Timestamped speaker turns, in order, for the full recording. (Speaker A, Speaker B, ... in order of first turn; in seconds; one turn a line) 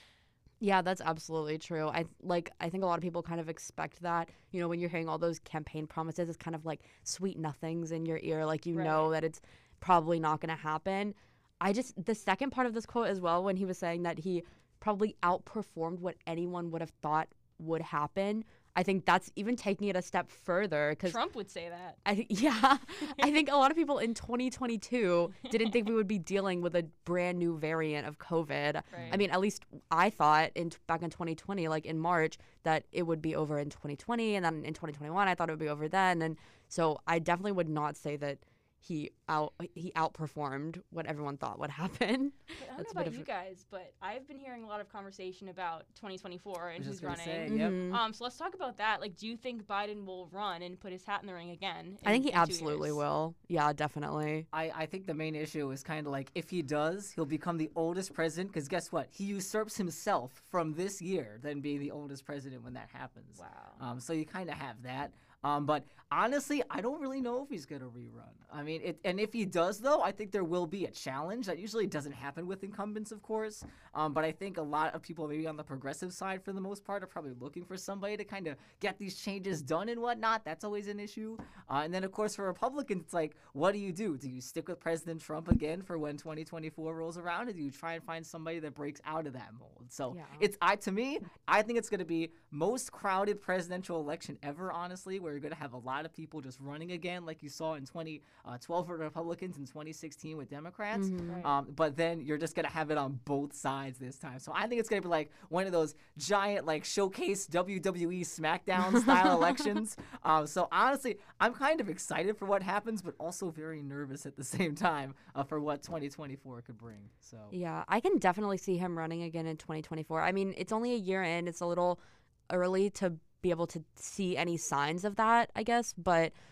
Speaker A: 0.6-21.2
Speaker B: 8.7-9.1
Speaker B: 21.0-22.0
Speaker A: 22.0-43.3
Speaker B: 25.5-25.9
Speaker B: 28.9-29.2
Speaker C: 28.9-29.2
Speaker B: 42.6-53.0
Speaker C: 46.8-47.8
Speaker A: 47.5-48.0
Speaker A: 52.0-54.5
Speaker C: 54.5-117.5
Speaker B: 63.4-63.8
Speaker A: 90.1-90.5
Speaker A: 100.9-101.4
Speaker B: 101.3-101.5
Speaker A: 117.5-126.3